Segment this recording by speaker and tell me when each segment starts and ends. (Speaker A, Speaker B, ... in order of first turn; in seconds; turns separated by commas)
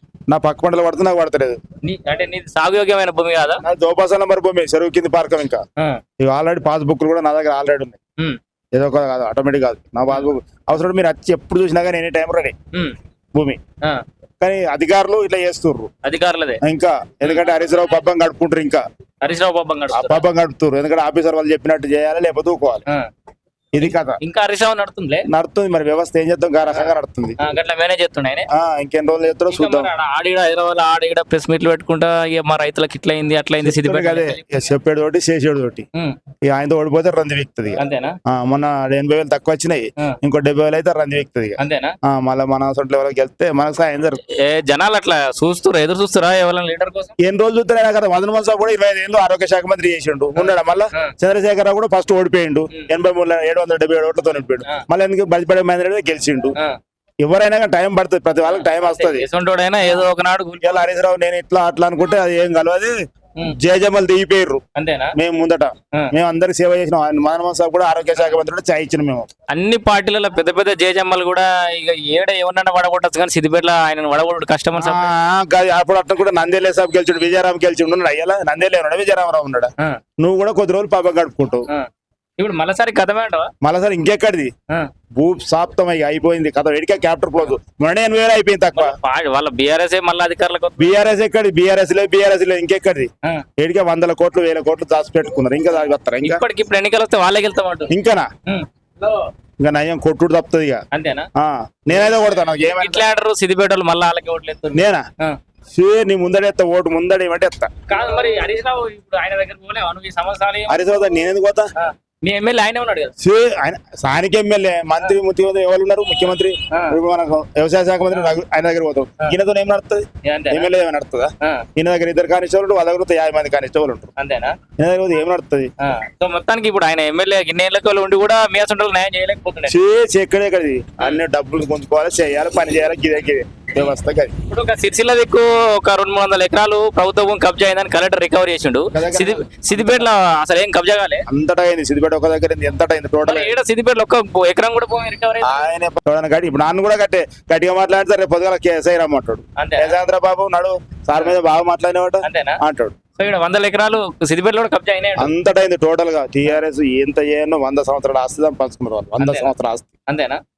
Speaker A: 0.3-1.6, Speaker B: 1.8-3.6, Speaker A: 3.6-5.6, Speaker A: 6.2-8.0, Speaker A: 8.8-12.5, Speaker A: 14.4-15.9, Speaker B: 16.0-16.6, Speaker A: 16.6-18.8, Speaker B: 17.2-17.6, Speaker B: 19.2-20.2, Speaker A: 19.9-22.8, Speaker A: 23.7-24.2, Speaker B: 23.8-25.3, Speaker A: 25.3-27.4, Speaker B: 27.4-28.5, Speaker A: 28.5-29.9, Speaker B: 29.5-34.4, Speaker A: 33.6-35.9, Speaker A: 36.5-44.2, Speaker B: 37.8-38.2, Speaker B: 41.6-42.0, Speaker B: 44.3-47.1, Speaker A: 47.2-56.5, Speaker B: 50.4-51.1, Speaker A: 57.2-59.3, Speaker B: 58.5-60.8, Speaker A: 59.8-60.1, Speaker A: 60.6-62.9, Speaker A: 63.6-64.6, Speaker B: 64.8-65.1, Speaker A: 65.2-69.3, Speaker B: 69.5-75.1, Speaker A: 74.8-81.7, Speaker B: 81.7-83.5, Speaker A: 83.6-84.5, Speaker A: 85.2-89.0, Speaker B: 88.7-91.0, Speaker A: 90.8-96.4, Speaker B: 96.2-97.9, Speaker A: 97.9-98.3, Speaker B: 98.5-99.2, Speaker A: 99.6-100.8, Speaker B: 100.9-101.3, Speaker A: 101.3-103.1, Speaker B: 101.9-105.3, Speaker A: 104.7-105.1, Speaker A: 105.7-107.7, Speaker B: 107.9-111.2, Speaker A: 110.7-111.7, Speaker B: 111.8-113.1, Speaker A: 113.2-124.1, Speaker B: 120.2-120.7, Speaker B: 124.2-124.5, Speaker A: 124.8-125.7, Speaker B: 125.8-129.8, Speaker A: 129.7-134.3, Speaker B: 134.5-141.2, Speaker A: 138.9-140.1, Speaker A: 141.3-143.6, Speaker B: 143.2-145.6, Speaker A: 145.4-153.0, Speaker B: 149.6-149.9, Speaker B: 152.2-152.6, Speaker B: 153.2-155.3, Speaker A: 155.2-159.9, Speaker B: 159.2-159.5, Speaker B: 160.1-160.4